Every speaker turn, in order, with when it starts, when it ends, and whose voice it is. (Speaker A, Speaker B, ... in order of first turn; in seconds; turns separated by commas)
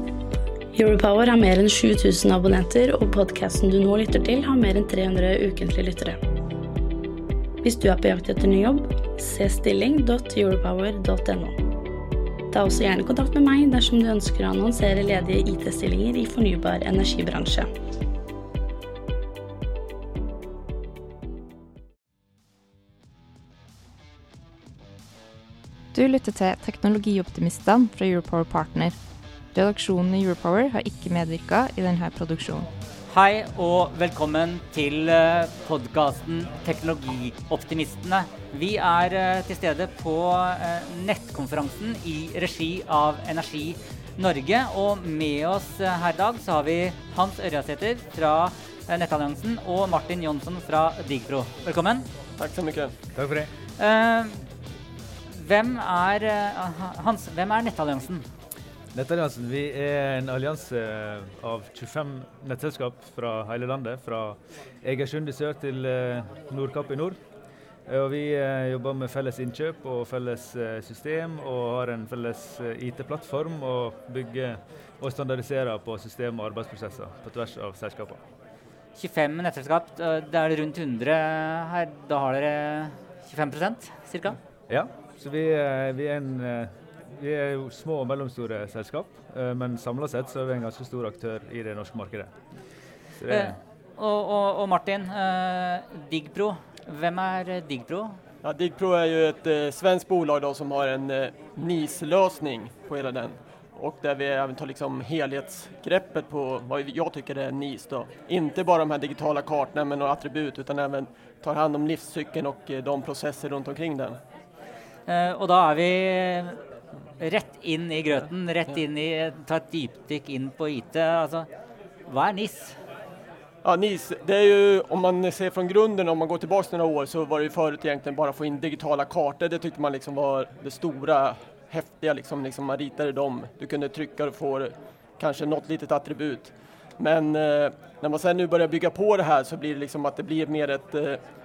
Speaker A: 0.7-6.2, Speaker A: 7.6-11.6, Speaker A: 12.5-17.7, Speaker B: 25.9-28.9, Speaker B: 29.5-32.7, Speaker C: 33.1-52.1, Speaker D: 52.4-52.9, Speaker E: 53.1-53.5, Speaker C: 53.8-54.5, Speaker C: 55.3-58.2, Speaker E: 58.9-67.2, Speaker E: 67.9-78.2, Speaker C: 79.0-84.4, Speaker E: 84.7-92.3, Speaker E: 93.2-93.6, Speaker C: 93.3-98.2, Speaker D: 98.4-114.2, Speaker C: 115.1-116.6, Speaker C: 117.2-121.5, Speaker C: 122.0-122.8, Speaker D: 123.6-141.2